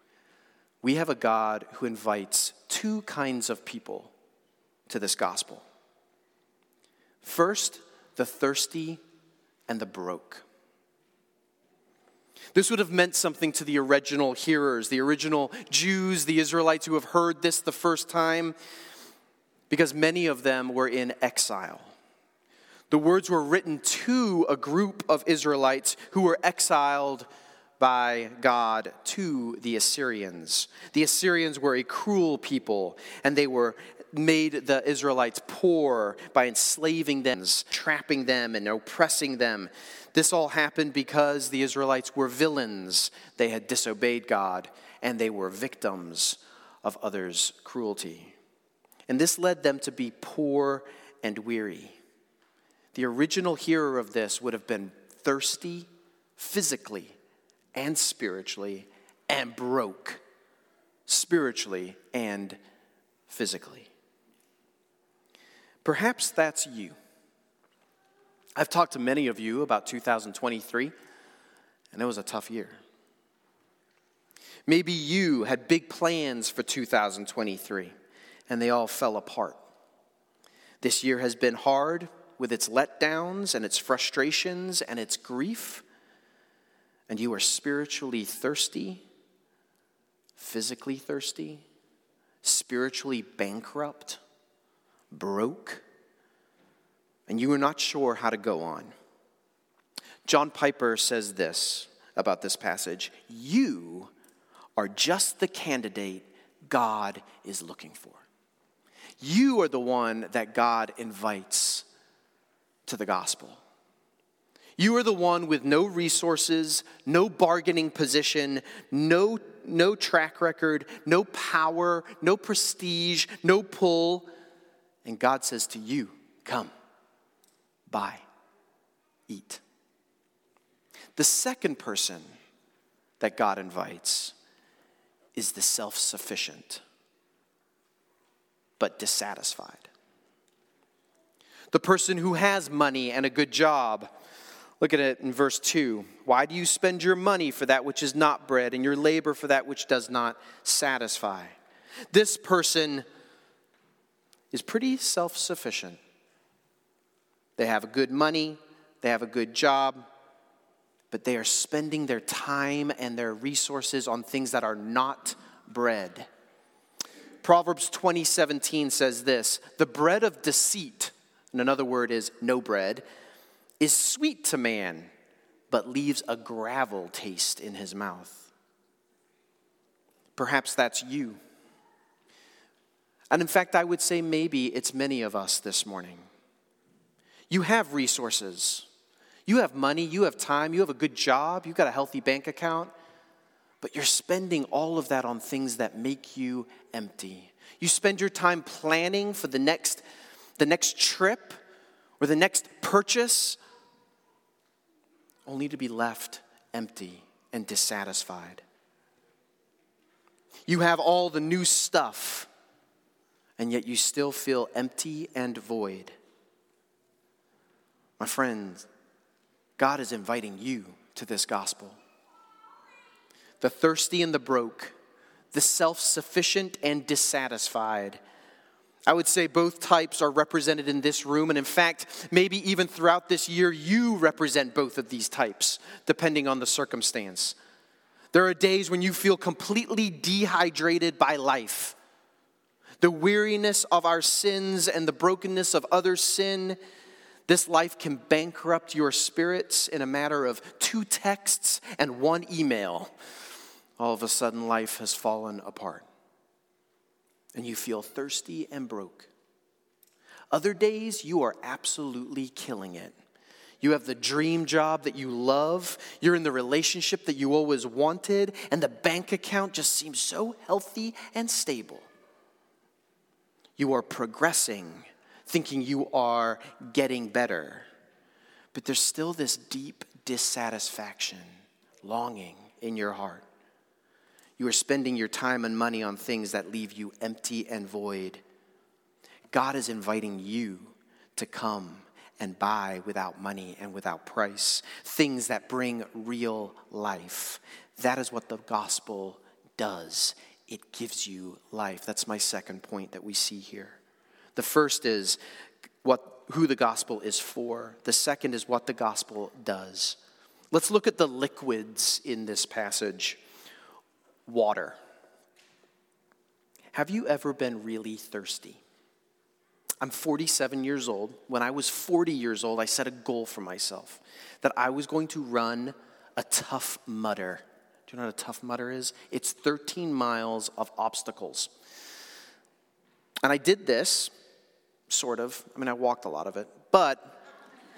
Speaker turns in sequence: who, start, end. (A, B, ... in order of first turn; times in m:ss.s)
0:00.8-0:04.1 A
0:04.9-0:05.6 A
0:07.2-0:09.0 A
0:09.7-0:10.4 A
0:12.5-0:18.5 A
0:19.7-0:21.9 A
0:22.9-0:27.3 A
0:27.8-0:48.3 A
0:49.1-0:52.0 A
0:52.9-0:57.2 A
0:57.7-1:00.2 A
1:01.1-1:02.6 A
1:03.3-1:03.9 A
1:05.8-1:07.0 A
1:08.6-1:10.9 A
1:11.9-1:12.8 A
1:14.7-1:17.9 A
1:18.5-1:19.6 A
1:20.8-1:25.8 A
1:27.1-1:29.0 A
1:30.4-1:31.6 A
1:32.4-1:34.2 A
1:35.1-1:35.8 A
1:37.3-1:38.9 A
1:40.2-1:44.1 A
1:44.8-1:48.2 A
1:49.2-1:51.8 A
1:52.8-1:53.6 A
1:54.8-2:04.3 A
2:05.0-2:06.7 A
2:07.9-2:08.2 A
2:09.3-2:09.6 A
2:11.2-2:12.3 A
2:13.2-2:14.3 A
2:15.3-2:16.8 A
2:18.8-2:19.9 A
2:21.7-2:24.1 A
2:24.8-2:31.6 A
2:32.1-2:33.0 A
2:34.5-2:36.0 A
2:37.6-2:40.0 A
2:41.1-2:46.3 A
2:47.4-2:53.0 A
2:53.8-2:55.1 A
2:55.7-2:58.5 A
3:00.4-3:01.4 A
3:03.3-3:06.2 A
3:07.5-3:08.9 A
3:09.5-3:12.9 A
3:13.8-3:20.0 A
3:20.6-3:21.6 A
3:22.2-3:23.6 A
3:25.4-3:28.6 A
3:30.7-3:32.5 A
3:33.6-3:36.1 A
3:38.2-3:38.9 A
3:39.8-3:42.0 A
3:43.6-3:44.9 A
3:45.5-3:48.2 A
3:49.1-3:57.6 A
3:58.3-4:02.0 A
4:03.0-4:06.8 A
4:07.5-4:13.1 A
4:14.0-4:16.0 A
4:17.5-4:19.3 A
4:20.5-4:23.1 A
4:23.8-4:32.0 A
4:33.8-4:37.8 A
4:38.7-4:41.5 A
4:42.0-4:43.4 A
4:44.6-4:48.4 A
4:49.5-5:04.0 A
5:04.6-5:05.4 A
5:06.0-5:10.2 A
5:10.7-5:13.4 A
5:14.5-5:15.0 A
5:16.9-5:18.8 A
5:20.0-5:31.7 A
5:33.4-5:34.3 A
5:35.1-5:37.3 A